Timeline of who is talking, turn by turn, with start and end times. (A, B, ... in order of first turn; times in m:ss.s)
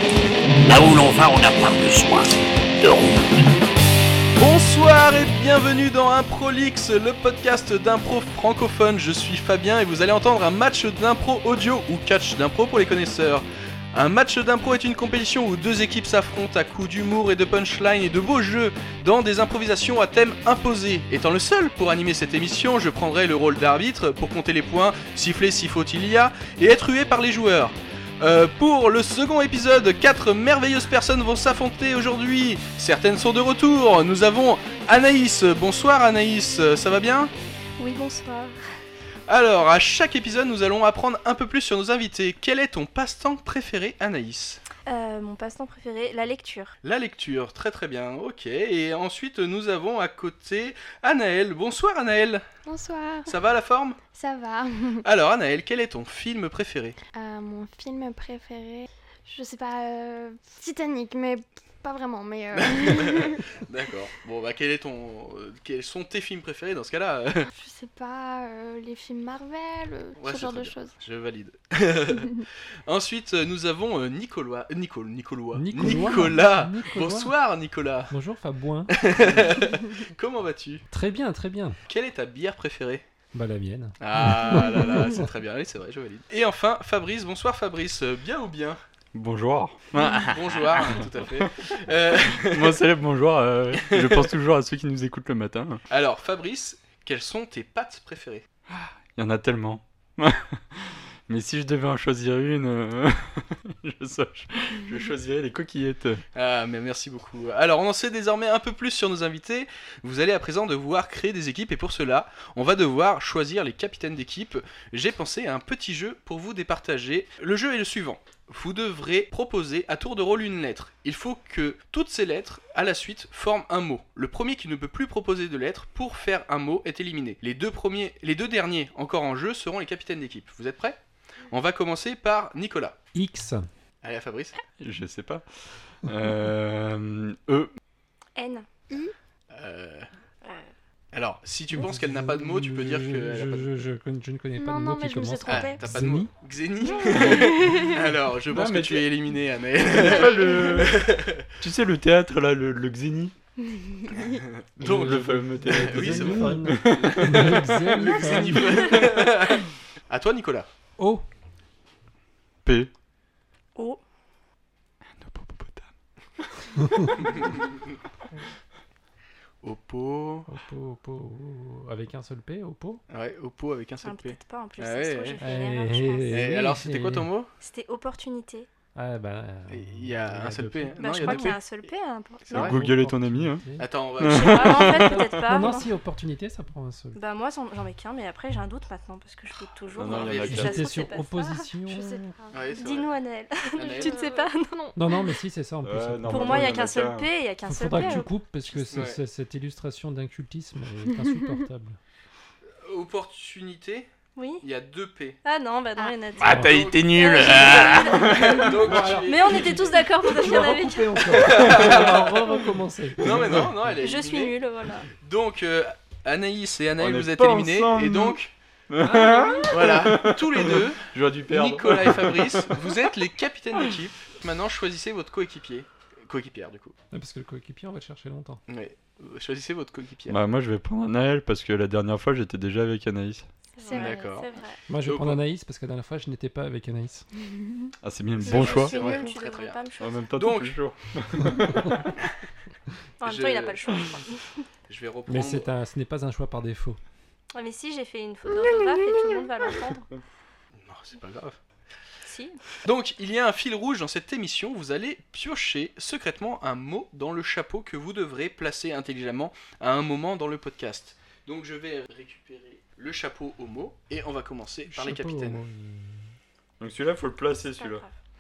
0:00.7-0:02.3 A
0:02.8-0:03.1 A
0:04.4-0:37.3 B
0:37.8-0:38.6 C
0:39.3-0:44.6 B
0:44.9-0:46.7 C
0:46.8-0:52.5 B
0:52.7-0:53.3 D
0:53.3-0:54.0 B
0:54.1-0:55.0 D
0:55.0-0:57.0 B
0:57.2-1:03.4 D
1:02.5-1:07.5 B
1:07.5-1:11.0 D
1:10.2-1:18.1 B
1:15.6-1:17.3 E
1:18.1-1:19.0 E
1:18.9-1:20.8 B
1:20.9-1:21.8 E
1:21.9-1:23.0 B
1:23.3-1:25.2 E
1:24.0-1:28.8 B
1:29.2-1:35.8 F
1:30.0-1:32.8 B
1:33.8-1:34.3 B
1:35.9-1:38.4 B
1:38.7-1:46.2 F
1:46.4-2:11.0 B
2:11.5-2:13.0 B
2:13.2-2:13.7 E
2:14.0-2:14.6 B
2:14.8-2:17.7 F
2:18.4-2:18.7 C
2:19.5-2:20.1 B
2:20.4-2:20.7 C
2:21.1-2:23.7 B
2:21.7-2:26.3 E
2:24.6-2:25.6 D
2:25.1-2:25.8 C
2:25.5-2:31.5 B
2:26.9-2:27.9 D
2:27.1-2:27.4 C
2:28.5-2:29.1 F
2:29.8-2:31.1 F
2:31.6-2:33.3 F
2:33.7-2:34.3 D
2:34.3-2:40.7 B
2:34.8-2:39.0 E
2:34.8-2:37.7 F
2:41.0-2:41.2 E
2:42.6-2:42.9 F
2:45.2-2:45.9 F
2:46.8-2:47.1 E
2:47.3-2:47.8 B
2:49.6-2:50.5 B
2:50.5-2:53.0 E
2:53.1-2:55.4 B
2:54.0-2:56.5 C
2:55.4-2:57.3 E
2:56.3-2:57.5 B
2:57.6-2:58.7 C
2:59.0-3:01.6 E
2:59.7-3:01.6 B
3:01.0-3:02.7 C
3:02.5-3:02.8 B
3:02.5-3:03.6 F
3:02.6-3:03.9 E
3:03.8-3:05.1 B
3:04.2-3:05.5 F
3:04.2-3:05.9 C
3:05.3-3:07.2 E
3:07.2-3:12.2 C
3:10.0-3:10.9 F
3:10.0-3:11.1 B
3:10.4-3:12.3 E
3:12.5-3:13.1 B
3:12.7-3:14.8 C
3:13.7-3:14.2 B
3:13.8-3:15.0 D
3:15.0-3:16.7 E
3:15.8-3:17.3 F
3:16.3-3:19.0 C
3:17.7-3:22.0 E
3:18.9-3:19.2 B
3:22.8-3:24.1 B
3:24.4-3:24.6 C
3:24.6-3:25.4 B
3:25.4-3:31.6 C
3:26.4-3:29.2 F
3:26.4-3:26.7 E
3:26.4-3:30.6 B
3:28.6-3:34.0 E
3:31.2-3:34.6 B
3:34.0-3:35.1 C
3:35.1-3:38.5 B
3:37.0-3:38.4 F
3:38.9-3:43.0 F
3:39.0-3:40.0 E
3:39.7-3:47.0 B
3:47.1-3:48.6 E
3:48.7-3:50.4 B
3:50.3-3:53.5 F
3:53.8-3:54.8 C
3:53.8-3:54.4 D
3:53.9-3:55.4 B
3:54.9-3:57.3 E
3:57.5-3:57.9 D
3:58.0-3:59.2 F
3:58.4-3:59.8 B
3:58.4-4:00.3 C
4:00.0-4:02.2 F
4:00.3-4:00.7 B
4:03.2-4:04.5 C
4:03.2-4:04.2 B
4:04.9-4:05.7 B
4:05.3-4:07.0 E
4:07.5-4:10.1 C
4:10.8-4:11.6 B
4:12.2-4:12.6 C
4:12.8-4:25.6 B
4:24.9-4:26.2 E
4:26.8-4:28.0 F
4:27.8-4:28.1 C